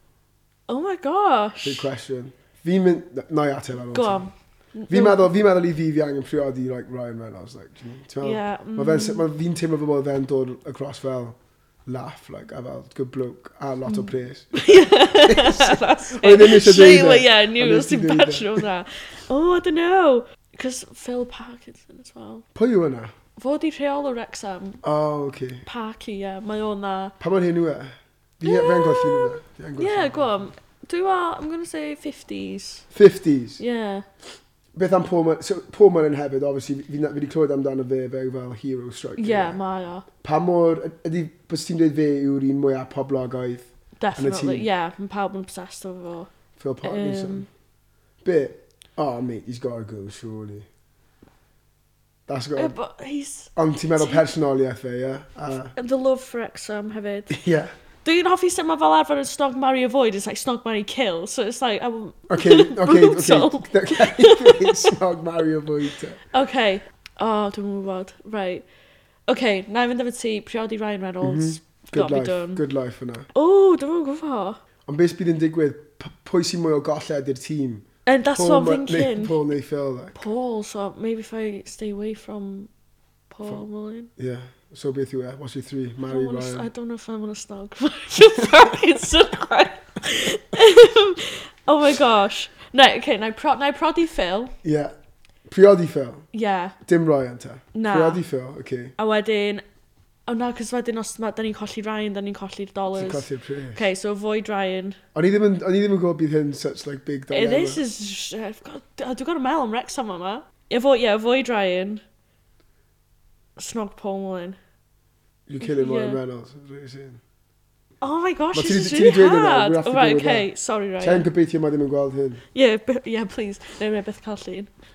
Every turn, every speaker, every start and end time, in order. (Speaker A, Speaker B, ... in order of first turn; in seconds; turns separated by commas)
Speaker A: 0.7-1.9, Speaker B: 1.6-4.2, Speaker A: 3.9-5.3, Speaker B: 4.9-18.7, Speaker A: 8.2-9.2, Speaker A: 13.8-22.4, Speaker B: 22.5-23.1, Speaker A: 23.4-24.8, Speaker B: 24.8-25.6, Speaker A: 25.6-27.1, Speaker B: 27.2-30.4, Speaker A: 28.4-32.8, Speaker B: 32.9-33.6, Speaker A: 33.6-34.0, Speaker B: 34.7-39.6, Speaker A: 39.2-40.0, Speaker B: 40.2-44.7, Speaker A: 44.0-46.3, Speaker B: 46.6-47.5, Speaker A: 46.8-47.5, Speaker B: 48.2-50.6, Speaker B: 52.3-52.8, Speaker A: 52.5-54.2, Speaker B: 53.5-55.7, Speaker A: 55.8-57.4, Speaker B: 57.3-57.7, Speaker A: 58.0-64.9, Speaker B: 62.3-66.2, Speaker A: 66.3-68.7, Speaker A: 69.3-72.6, Speaker B: 71.2-73.3, Speaker A: 73.3-74.6, Speaker B: 74.8-80.2, Speaker A: 78.0-79.4, Speaker A: 80.1-82.7, Speaker A: 83.3-84.1, Speaker B: 84.2-86.7, Speaker A: 86.1-94.5, Speaker B: 94.6-94.9, Speaker B: 95.5-96.2, Speaker A: 96.3-96.8, Speaker B: 96.8-98.9, Speaker A: 97.7-98.2, Speaker A: 99.0-99.6, Speaker A: 100.3-105.0, Speaker B: 102.9-103.8, Speaker B: 105.1-107.8, Speaker A: 107.3-112.0, Speaker A: 113.6-114.6, Speaker B: 115.5-117.2, Speaker A: 115.6-116.2, Speaker A: 118.0-121.3, Speaker B: 118.5-120.5, Speaker B: 121.0-122.4, Speaker A: 122.5-124.7